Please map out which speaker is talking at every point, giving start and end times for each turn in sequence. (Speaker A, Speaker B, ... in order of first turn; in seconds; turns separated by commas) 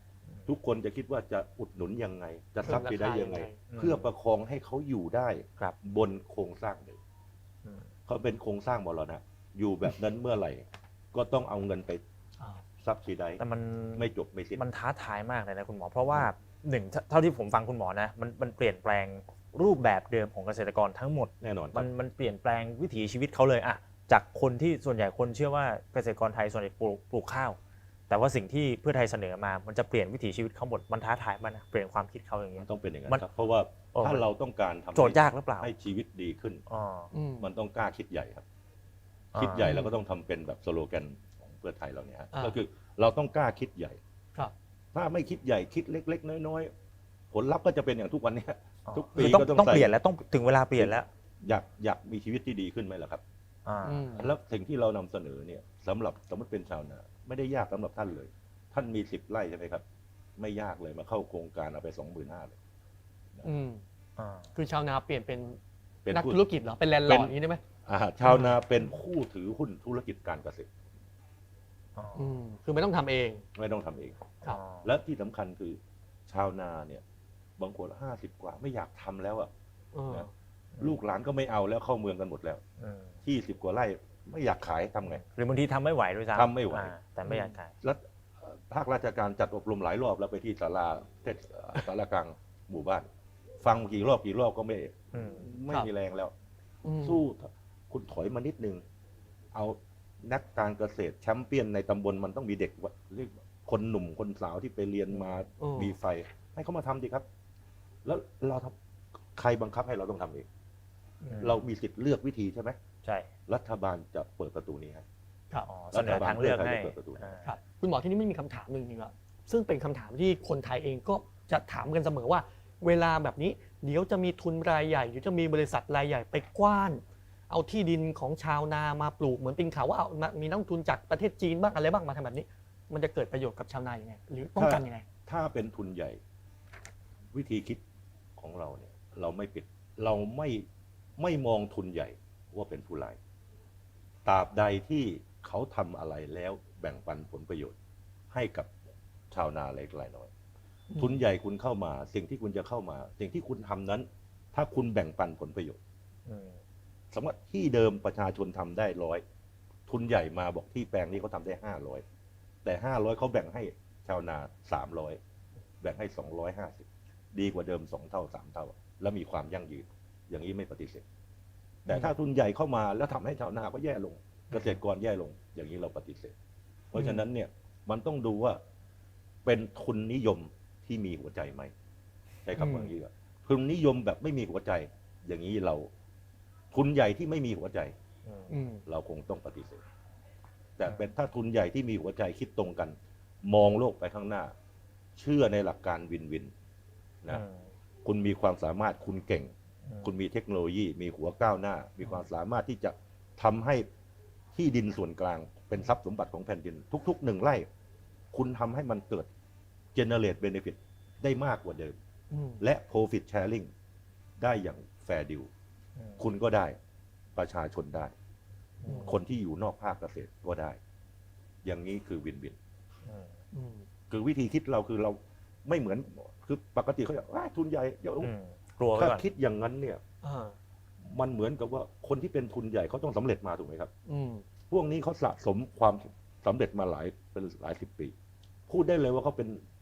Speaker A: 0.5-7.0, Speaker B: 2.6-3.6, Speaker C: 3.7-4.1, Speaker A: 8.1-12.0, Speaker A: 12.8-13.4, Speaker C: 13.4-27.6, Speaker A: 13.9-14.6, Speaker A: 16.1-16.3, Speaker A: 21.4-21.9, Speaker C: 28.1-33.2, Speaker A: 32.6-36.6, Speaker C: 33.9-34.3, Speaker C: 34.9-35.7, Speaker C: 36.7-37.1, Speaker B: 37.1-37.5, Speaker A: 37.4-38.4, Speaker C: 39.3-39.8, Speaker A: 39.3-44.0, Speaker B: 39.6-40.0, Speaker A: 44.9-46.7, Speaker A: 47.3-49.9, Speaker C: 48.9-51.1, Speaker A: 50.8-53.2, Speaker C: 53.6-54.0, Speaker B: 53.8-54.3, Speaker A: 54.1-59.8, Speaker A: 60.4-62.5, Speaker B: 63.4-63.8, Speaker C: 64.2-64.5, Speaker B: 64.5-65.6, Speaker A: 66.0-66.4, Speaker B: 66.1-67.6, Speaker A: 67.0-67.3, Speaker A: 67.8-70.7, Speaker C: 72.0-72.3, Speaker B: 72.1-73.5, Speaker A: 73.5-77.0, Speaker C: 74.5-74.8, Speaker A: 77.6-79.5, Speaker B: 79.9-80.3, Speaker A: 80.8-82.6, Speaker C: 82.8-83.1, Speaker A: 83.2-85.2, Speaker C: 85.3-87.7, Speaker A: 86.3-86.9, Speaker B: 87.3-87.5, Speaker A: 87.8-93.1, Speaker A: 93.6-96.3, Speaker C: 95.1-95.5, Speaker B: 96.8-97.2, Speaker A: 97.0-98.8, Speaker A: 99.5-107.2, Speaker B: 105.6-105.9, Speaker A: 108.0-108.7, Speaker A: 109.3-110.5, Speaker C: 111.3-111.6, Speaker A: 111.4-112.8, Speaker C: 113.0-113.3, Speaker A: 113.5-115.0, Speaker C: 115.7-117.5, Speaker A: 115.9-117.4, Speaker B: 117.4-135.1, Speaker A: 134.6-136.2, Speaker A: 137.3-137.8, Speaker A: 138.3-140.7, Speaker A: 141.2-143.2, Speaker A: 144.2-147.8, Speaker A: 148.3-148.7, Speaker A: 149.3-150.3, Speaker A: 151.0-155.8, Speaker C: 156.2-156.6, Speaker A: 157.1-159.2, Speaker A: 159.9-162.0, Speaker A: 162.6-165.2, Speaker A: 165.8-171.0, Speaker A: 171.8-176.3, Speaker B: 176.9-177.2, Speaker A: 176.9-178.6, Speaker A: 179.4-181.7, Speaker A: 182.4-185.9, Speaker B: 182.6-182.9, Speaker A: 186.7-187.9, Speaker B: 188.5-188.8, Speaker A: 188.9-189.8, Speaker A: 190.8-194.5, Speaker A: 195.2-196.5, Speaker C: 197.3-197.6, Speaker A: 198.0-203.8, Speaker A: 204.5-207.7, Speaker A: 208.3-209.3, Speaker A: 209.9-211.9, Speaker B: 212.3-212.6, Speaker A: 212.6-213.7, Speaker A: 214.4-215.5, Speaker A: 216.2-216.8, Speaker A: 217.3-218.1, Speaker C: 218.8-219.2, Speaker B: 218.8-219.1, Speaker A: 218.9-220.8, Speaker A: 221.6-222.6, Speaker C: 223.0-223.3, Speaker B: 223.5-223.9, Speaker A: 224.1-228.3, Speaker C: 228.2-229.2, Speaker A: 228.9-230.0, Speaker B: 230.2-230.6, Speaker A: 231.0-233.9, Speaker B: 234.1-234.4, Speaker A: 234.7-238.1, Speaker A: 238.7-239.6